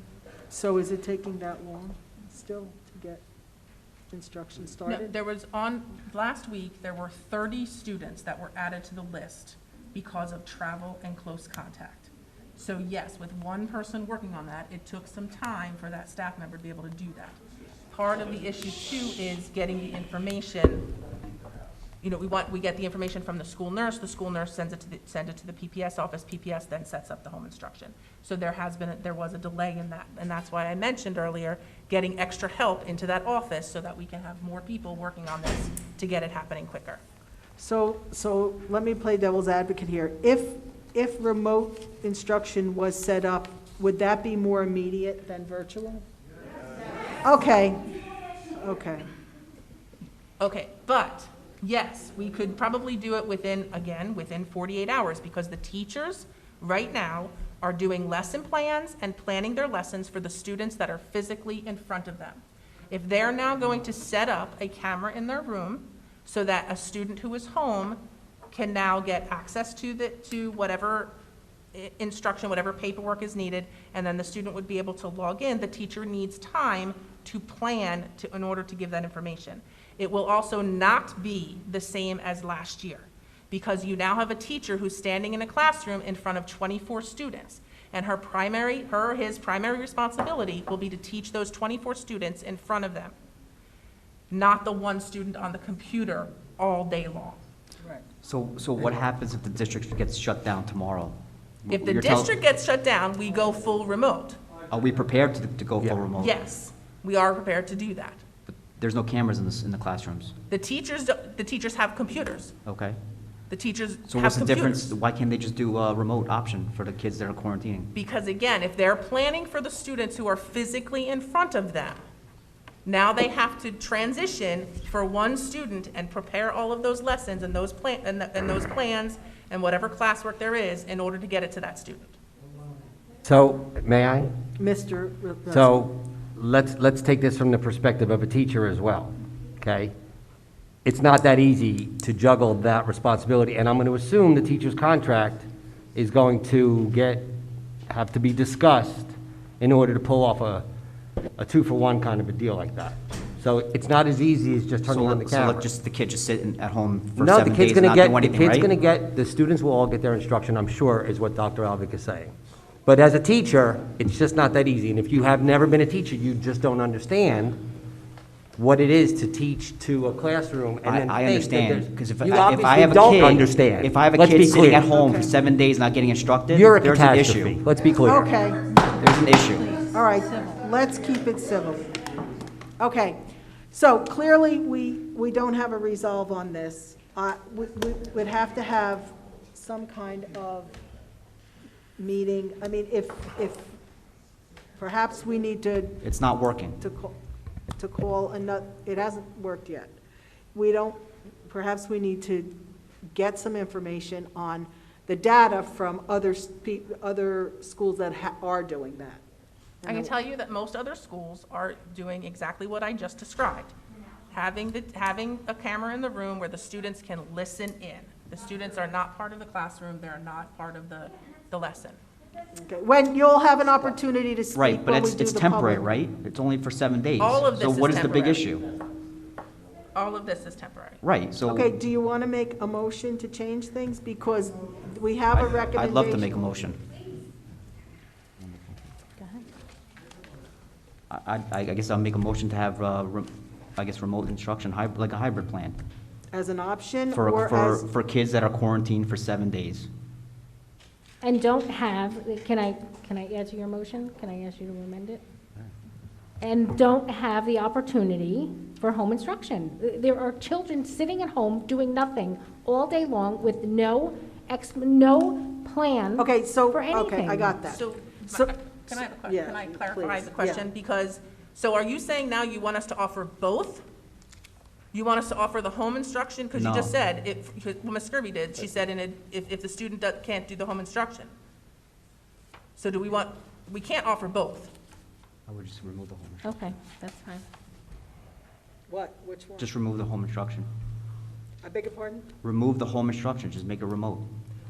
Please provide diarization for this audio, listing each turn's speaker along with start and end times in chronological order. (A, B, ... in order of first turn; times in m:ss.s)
0:00.5-0:03.2 A
0:04.1-0:05.1 A
0:04.9-0:20.9 B
0:22.0-0:37.0 B
0:37.6-0:46.0 A
0:47.2-0:47.8 A
0:48.6-0:49.1 A
0:50.4-1:08.0 B
1:08.5-1:11.1 B
1:11.7-1:33.2 B
1:34.3-1:37.4 B
1:38.2-1:42.3 C
1:41.7-1:44.4 B
1:44.7-1:46.4 C
1:46.2-1:48.2 B
1:48.5-1:50.3 C
1:50.5-1:52.6 B
1:52.7-1:53.0 C
1:53.5-1:54.9 B
1:54.1-1:57.9 C
1:57.9-2:02.0 B
2:02.8-2:12.2 B
2:13.2-2:14.3 D
2:14.6-2:15.7 A
2:15.5-2:19.9 D
2:20.8-2:27.3 D
2:27.9-2:30.6 D
2:31.4-2:35.7 D
2:34.9-2:38.7 C
2:37.2-2:47.6 D
2:48.6-2:54.9 D
2:50.8-2:57.6 C
2:54.9-2:55.3 A
2:56.5-2:58.3 D
2:58.1-2:58.7 A
2:59.0-2:59.8 C
2:59.8-3:01.9 A
3:02.8-3:03.2 A
3:03.7-3:10.8 A
3:12.0-3:13.8 A
3:14.8-3:16.0 A
3:16.0-3:16.8 C
3:16.8-3:17.1 A
3:17.8-3:20.0 A
3:20.5-3:22.5 A
3:23.1-3:29.2 A
3:29.8-3:30.1 A
3:29.8-3:33.7 B
3:34.3-3:42.0 B
3:42.6-3:45.9 A
3:44.6-3:48.6 C
3:47.2-3:48.5 B
3:50.0-3:51.0 B
3:51.0-3:51.7 C
3:51.5-3:56.5 A
3:55.4-3:56.8 C
3:58.4-3:58.8 C
3:59.2-3:59.4 E
4:01.1-4:05.8 C
4:06.3-4:07.9 A
4:07.1-4:09.9 C
4:11.2-4:15.2 E
4:16.4-4:27.6 E
4:26.2-4:30.7 A
4:27.7-4:33.8 B
4:34.9-4:41.3 B
4:36.6-4:36.9 C
4:42.8-4:44.7 B
4:45.5-4:46.5 C
4:46.4-4:47.4 E
4:48.9-4:49.7 A
4:49.6-4:50.7 C
4:51.6-4:52.3 A
4:52.4-4:54.3 C